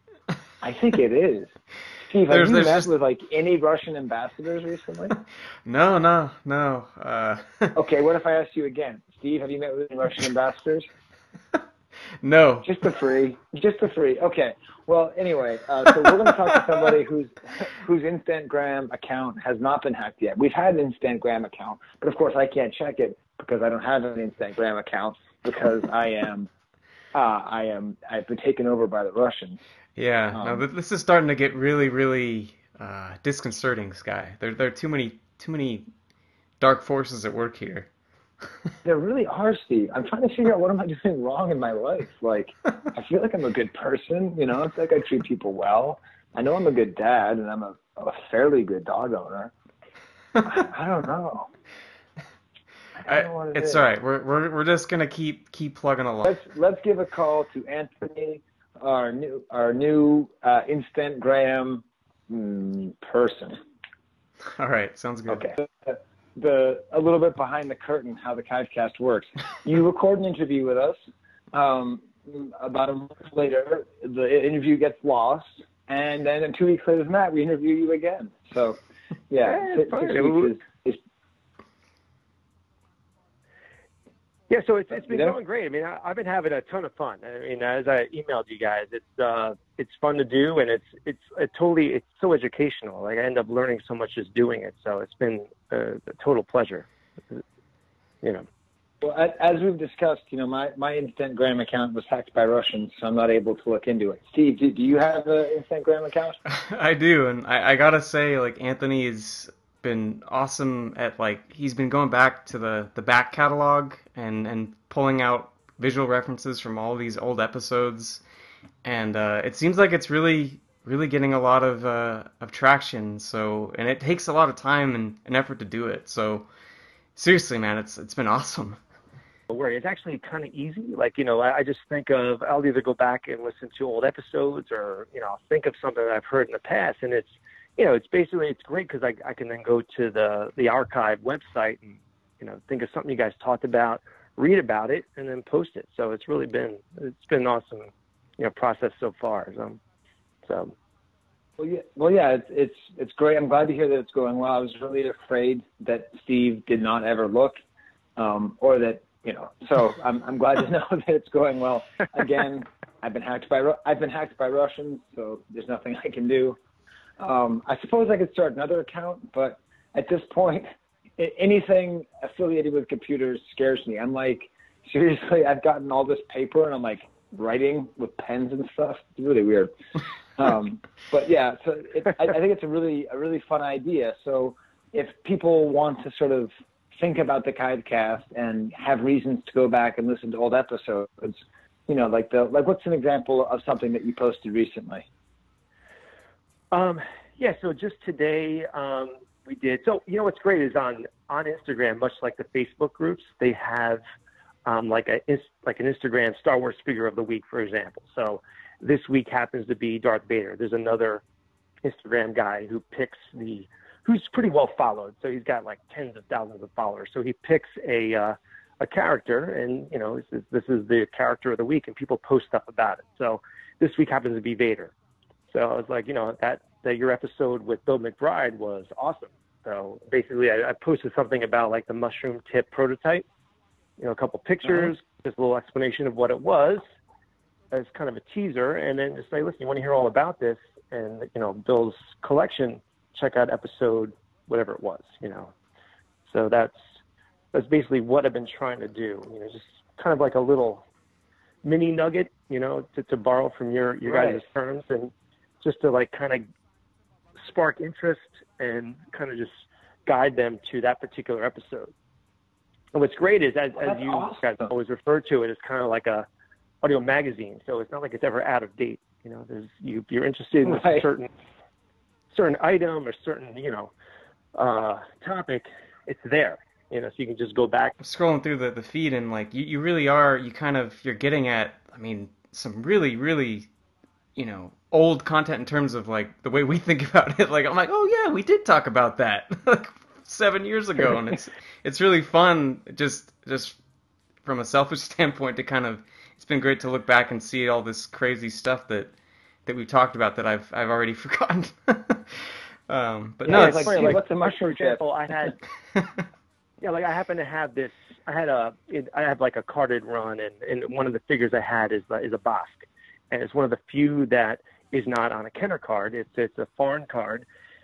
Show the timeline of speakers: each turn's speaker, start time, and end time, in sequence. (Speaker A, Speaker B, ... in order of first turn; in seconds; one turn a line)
Speaker A: 0.6-5.2
Speaker B: 2.3-2.9
Speaker B: 5.7-7.8
Speaker A: 7.7-10.9
Speaker B: 12.2-12.8
Speaker A: 12.6-26.5
Speaker A: 27.1-29.6
Speaker B: 30.0-35.9
Speaker A: 30.3-30.6
Speaker B: 36.6-37.9
Speaker A: 38.8-49.5
Speaker A: 50.4-51.5
Speaker A: 53.0-53.8
Speaker B: 53.1-56.4
Speaker A: 56.2-63.6
Speaker B: 64.5-65.5
Speaker A: 65.3-71.0
Speaker A: 71.5-81.0
Speaker C: 79.5-80.5
Speaker C: 84.5-97.4
Speaker A: 84.9-85.3
Speaker A: 99.0-106.4
Speaker B: 106.5-118.2
Speaker B: 118.8-126.5
Speaker B: 127.2-128.8
Speaker C: 129.5-149.8
Speaker C: 150.5-150.7
Speaker A: 151.6-157.6
Speaker A: 158.2-166.6
Speaker A: 167.2-179.7
Speaker A: 180.4-195.1
Speaker C: 196.7-204.0
Speaker C: 204.7-211.2
Speaker C: 211.8-224.9
Speaker C: 225.5-233.2
Speaker C: 234.0-236.8
Speaker C: 237.7-245.5
Speaker C: 246.3-246.8
Speaker C: 247.5-250.8
Speaker C: 251.6-256.4
Speaker A: 254.1-254.4
Speaker C: 257.4-259.5
Speaker C: 260.1-261.9
Speaker C: 262.9-266.3
Speaker A: 263.8-264.7
Speaker C: 266.8-271.3
Speaker A: 270.6-271.1
Speaker C: 272.3-273.9
Speaker C: 274.6-277.9
Speaker B: 278.0-283.7
Speaker B: 284.4-293.8
Speaker B: 294.4-299.1
Speaker B: 299.7-304.2
Speaker A: 303.5-305.0
Speaker C: 303.5-305.6
Speaker C: 306.8-317.4